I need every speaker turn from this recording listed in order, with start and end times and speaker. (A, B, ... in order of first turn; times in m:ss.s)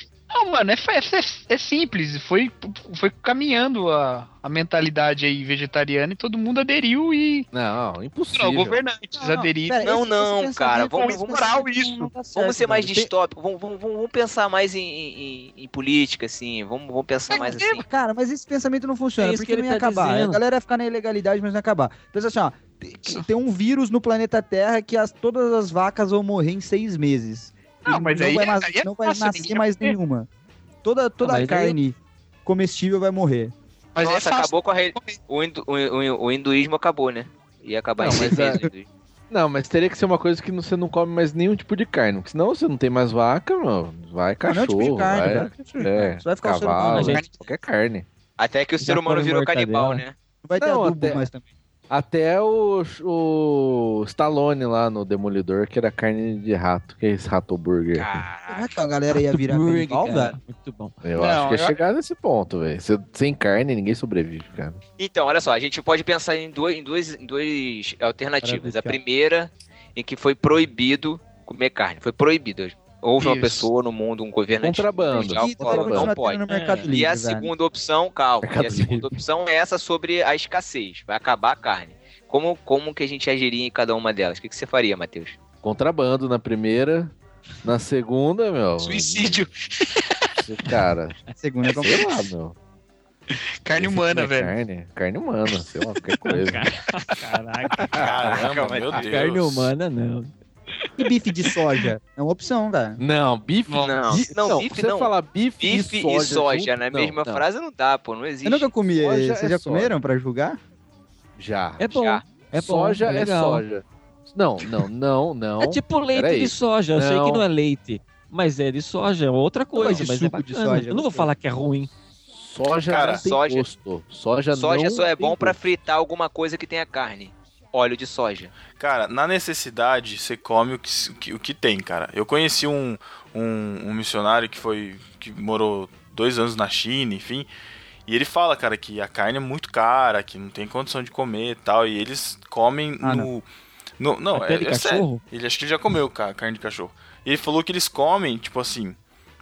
0:00.3-0:07.5 A
0:07.5-0:08.8 B
0:08.3-0:09.9 A
0:09.2-0:13.1 C
0:09.8-0:11.6 D
0:11.0-0:12.1 A
0:12.3-0:17.8 D
0:17.3-0:17.8 A
0:17.8-0:30.3 C
0:19.2-0:20.4 E
0:27.8-0:30.0 A
0:30.8-0:33.5 C
0:31.2-0:31.8 E
0:33.9-0:35.2 A
0:34.0-0:38.9 D
0:38.0-0:38.7 B
0:39.3-0:48.0 B
0:44.4-0:47.2 C
0:46.8-0:47.2 E
0:47.0-0:47.4 A
0:48.4-0:50.1 D
0:48.8-0:50.0 E
0:50.4-0:51.4 C
0:50.6-0:51.3 B
0:51.9-0:58.0 B
0:57.9-0:58.7 D
0:58.5-1:00.4 C
0:59.1-1:01.0 E
1:01.0-1:04.8 B
1:01.2-1:01.8 A
1:05.0-1:25.4 D
1:08.4-1:09.0 C
1:13.2-1:13.7 A
1:14.6-1:16.2 B
1:15.1-1:17.5 C
1:16.5-1:16.9 E
1:18.4-1:19.2 B
1:25.6-1:29.4 B
1:28.8-1:30.3 A
1:30.4-1:31.2 B
1:31.4-1:32.3 C
1:31.7-1:32.6 B
1:33.3-1:34.5 A
1:33.8-1:36.6 B
1:36.3-1:40.3 E
1:37.9-1:38.4 B
1:37.9-1:39.7 F
1:38.0-1:39.0 D
1:41.0-1:43.0 C
1:43.0-1:47.4 B
1:43.7-1:43.9 A
1:43.8-1:48.7 D
1:48.4-1:50.6 C
1:49.0-1:49.9 B
1:51.4-1:51.9 B
1:51.8-1:53.6 E
1:51.9-1:52.2 D
1:52.5-1:57.4 B
1:55.6-2:01.9 E
1:59.7-2:01.3 C
2:02.3-2:05.6 B
2:02.9-2:03.2 F
2:03.0-2:03.7 D
2:04.5-2:08.5 D
2:08.8-2:17.5 F
2:18.0-2:23.4 F
2:23.0-2:23.3 C
2:24.0-2:29.0 F
2:24.3-2:25.2 E